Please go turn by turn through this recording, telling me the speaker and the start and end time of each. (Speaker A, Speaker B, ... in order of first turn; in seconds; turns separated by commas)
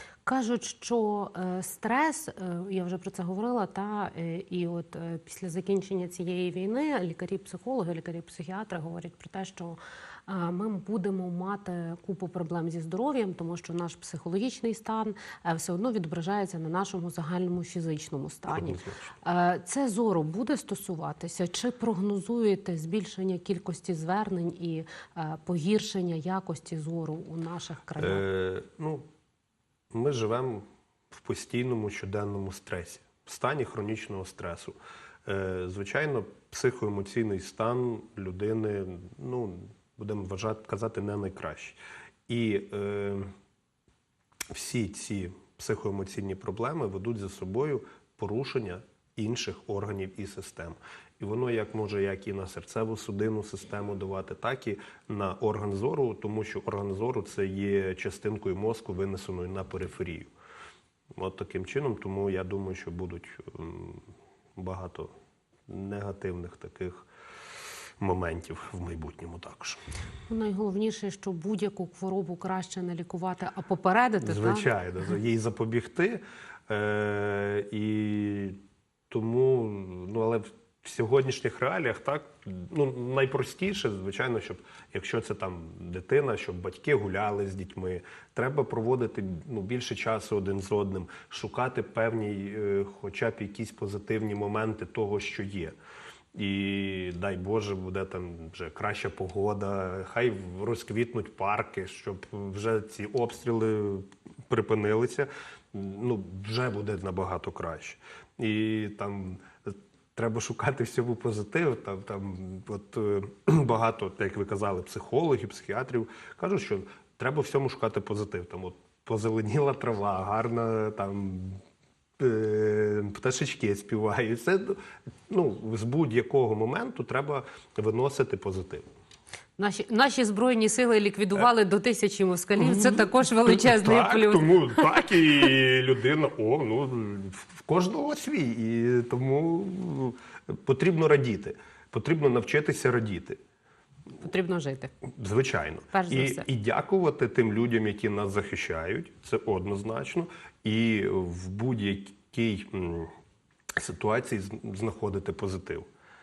Speaker A: 0.2-28.2, Speaker B: 18.5-19.1, Speaker B: 28.0-29.0, Speaker B: 29.9-43.3, Speaker B: 44.5-60.3, Speaker B: 61.2-65.1, Speaker B: 65.7-67.0, Speaker B: 68.0-69.8, Speaker A: 70.3-74.7, Speaker B: 74.2-78.6, Speaker B: 79.1-95.8, Speaker B: 96.3-121.6, Speaker B: 122.2-128.8, Speaker A: 129.6-134.9, Speaker B: 132.6-143.4, Speaker A: 144.2-144.9, Speaker B: 145.2-153.1, Speaker A: 145.9-146.4, Speaker B: 153.8-155.9